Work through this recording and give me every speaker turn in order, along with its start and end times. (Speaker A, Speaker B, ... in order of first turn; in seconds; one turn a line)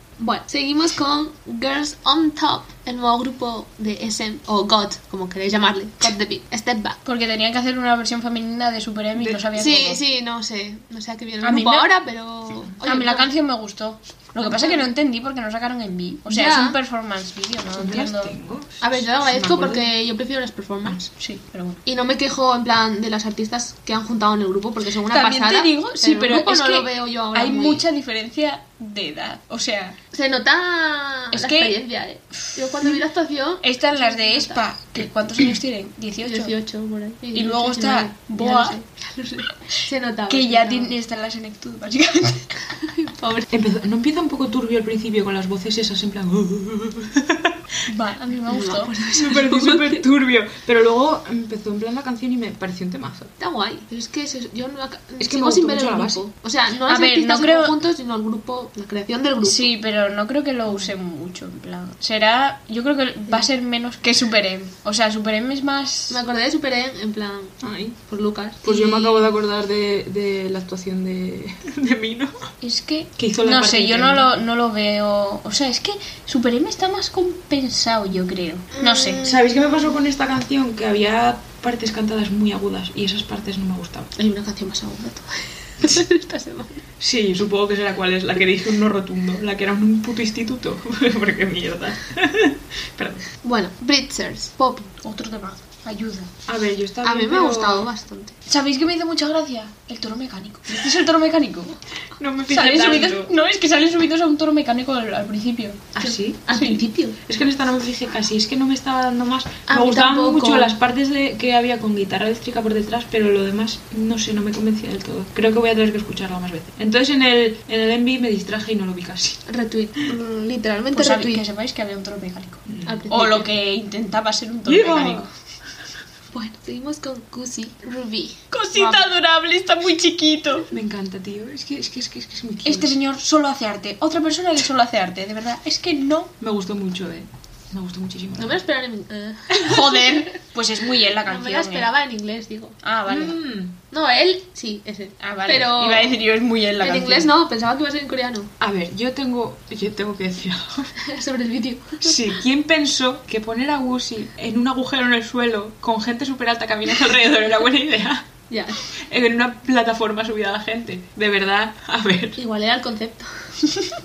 Speaker A: 0.2-7.0
Speaker B: 7.0-10.0
Speaker C: 9.2-9.8
Speaker A: 9.6-13.3
Speaker B: 11.4-11.9
Speaker B: 12.8-18.3
Speaker A: 14.4-14.9
Speaker A: 16.3-16.8
Speaker C: 17.8-19.9
Speaker A: 18.8-21.0
Speaker B: 21.2-21.8
Speaker A: 21.8-27.8
Speaker B: 25.1-30.0
Speaker A: 30.1-34.6
Speaker B: 31.3-31.8
Speaker B: 32.4-33.0
Speaker B: 33.6-36.5
Speaker A: 36.2-40.9
Speaker B: 37.3-38.8
Speaker B: 40.3-42.6
Speaker A: 42.9-43.5
Speaker C: 43.5-47.6
Speaker B: 47.9-48.9
Speaker A: 48.5-50.0
Speaker C: 49.1-53.3
Speaker A: 53.4-59.7
Speaker C: 55.2-56.2
Speaker B: 56.9-57.7
Speaker B: 59.4-66.2
Speaker A: 66.1-69.4
Speaker C: 67.6-68.0
Speaker C: 68.6-72.5
Speaker B: 72.6-79.2
Speaker C: 73.2-74.3
Speaker A: 78.7-79.5
Speaker C: 79.2-84.1
Speaker A: 84.2-86.8
Speaker C: 87.0-93.2
Speaker A: 93.4-94.9
Speaker B: 95.0-96.3
Speaker C: 96.5-97.8
Speaker A: 97.0-98.3
Speaker B: 98.5-101.8
Speaker C: 102.2-103.3
Speaker B: 102.5-105.9
Speaker C: 106.0-106.6
Speaker A: 106.0-107.2
Speaker B: 106.5-106.8
Speaker C: 107.2-119.4
Speaker A: 109.7-110.7
Speaker A: 119.5-121.4
Speaker B: 120.9-125.3
Speaker C: 122.7-123.0
Speaker A: 122.8-123.5
Speaker C: 124.6-125.3
Speaker A: 126.3-128.4
Speaker B: 128.5-130.7
Speaker C: 128.7-129.1
Speaker C: 130.7-132.9
Speaker B: 132.6-136.3
Speaker C: 136.4-138.6
Speaker A: 138.4-140.3
Speaker B: 139.5-141.9
Speaker A: 141.2-142.8
Speaker B: 142.8-143.4
Speaker C: 143.1-143.7
Speaker A: 143.9-146.2
Speaker B: 145.2-147.3
Speaker A: 146.8-148.5
Speaker C: 148.6-150.9
Speaker A: 151.0-152.2
Speaker C: 152.0-158.3
Speaker A: 158.5-158.8
Speaker C: 158.9-162.4
Speaker A: 162.4-163.7